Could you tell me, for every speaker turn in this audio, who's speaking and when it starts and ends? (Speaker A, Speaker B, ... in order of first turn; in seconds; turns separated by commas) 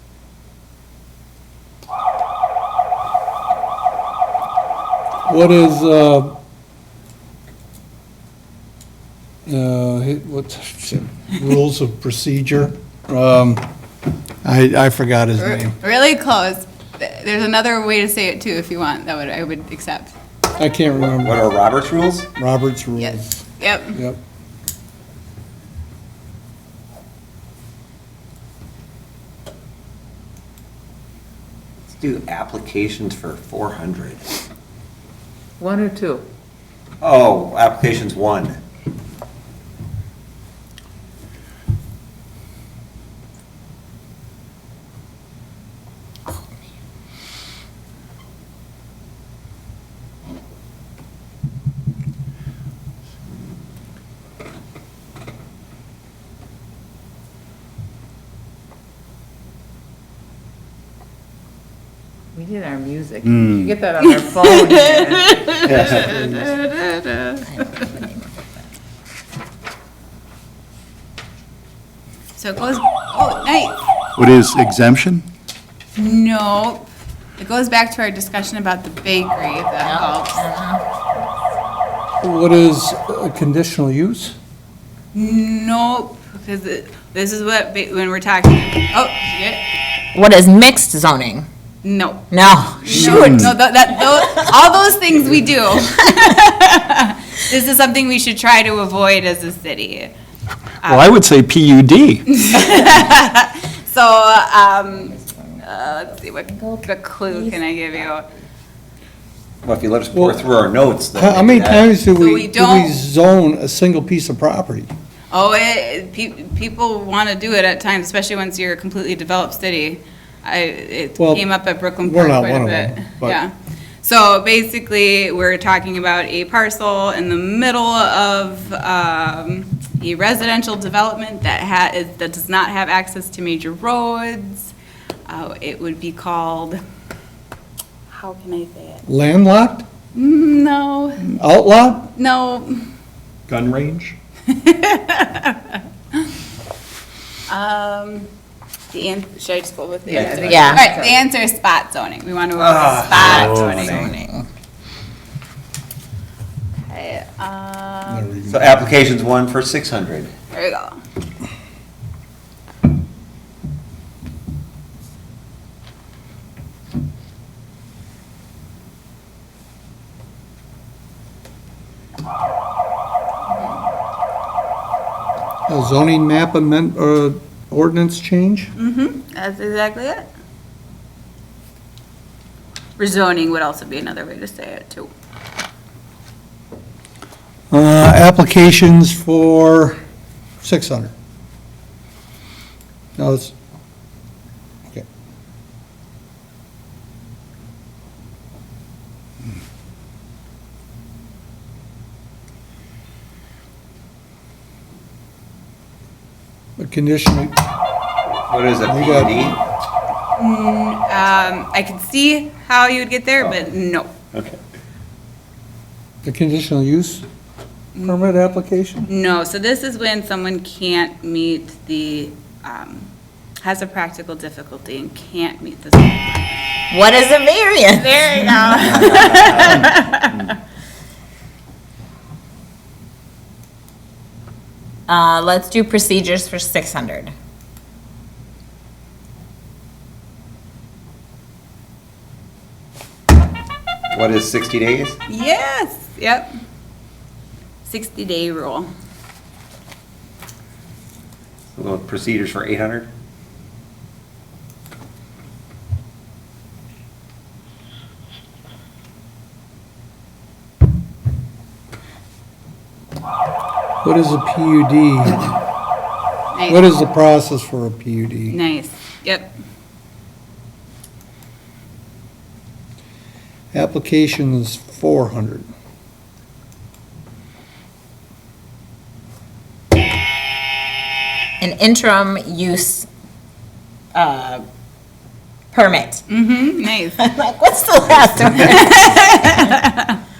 Speaker A: 5.3-6.3, Speaker A: 9.4-13.6, Speaker A: 14.4-15.8, Speaker B: 15.4-20.1, Speaker A: 20.5-21.4, Speaker C: 21.0-22.3, Speaker A: 22.4-23.4, Speaker B: 23.0-24.0, Speaker C: 31.9-34.3, Speaker D: 35.6-36.2, Speaker C: 37.0-38.6, Speaker D: 62.4-66.1, Speaker E: 63.2-63.8, Speaker B: 64.0-67.8, Speaker C: 65.6-66.3, Speaker F: 67.7-68.2, Speaker B: 72.4-73.8, Speaker E: 74.2-75.2, Speaker B: 76.0-76.9, Speaker B: 77.4-80.4, Speaker F: 79.8-80.8, Speaker A: 82.2-84.3, Speaker B: 85.1-89.6, Speaker F: 90.1-91.5, Speaker B: 91.8-100.1, Speaker F: 92.3-93.5, Speaker E: 92.9-93.5, Speaker B: 100.8-101.2, Speaker E: 100.8-102.4, Speaker B: 102.3-108.3, Speaker F: 106.4-108.1, Speaker C: 109.6-111.9, Speaker A: 110.1-110.4, Speaker A: 111.1-114.9, Speaker B: 112.1-113.0, Speaker B: 115.3-134.7, Speaker A: 121.2-123.4, Speaker B: 135.3-136.8, Speaker B: 138.1-139.0, Speaker A: 139.1-139.8, Speaker B: 140.1-141.3, Speaker A: 141.2-142.1, Speaker B: 142.1-142.9, Speaker C: 143.5-144.2, Speaker B: 144.5-146.2, Speaker B: 147.5-148.3, Speaker B: 148.9-154.2, Speaker C: 150.1-150.8, Speaker D: 150.2-151.2, Speaker F: 150.5-150.9, Speaker C: 152.6-154.1, Speaker F: 153.1-154.4, Speaker E: 153.3-153.7, Speaker B: 156.8-158.4, Speaker A: 158.1-158.9, Speaker C: 158.5-160.3, Speaker B: 160.5-161.0, Speaker A: 175.7-178.7, Speaker B: 178.8-180.3, Speaker B: 183.0-185.1, Speaker A: 187.7-190.0, Speaker A: 190.6-191.1, Speaker A: 193.2-193.5, Speaker A: 206.8-207.5, Speaker C: 208.5-209.6, Speaker A: 208.9-209.6, Speaker B: 210.4-214.1, Speaker C: 214.3-214.6, Speaker A: 216.2-217.2, Speaker B: 217.9-218.6, Speaker A: 218.0-219.1, Speaker B: 219.1-223.1, Speaker B: 223.6-226.5, Speaker F: 226.9-229.1, Speaker B: 228.0-230.6, Speaker C: 228.8-229.9, Speaker F: 235.1-237.3, Speaker C: 244.1-245.2, Speaker B: 245.3-246.5, Speaker B: 247.8-248.9, Speaker C: 251.7-253.1, Speaker A: 264.0-265.5, Speaker B: 266.5-266.8, Speaker A: 266.7-268.6, Speaker B: 268.5-269.5, Speaker A: 273.7-275.7, Speaker F: 281.6-283.1, Speaker F: 284.1-284.6, Speaker F: 285.7-286.3, Speaker B: 286.3-287.2, Speaker F: 287.2-289.7, Speaker B: 288.6-290.1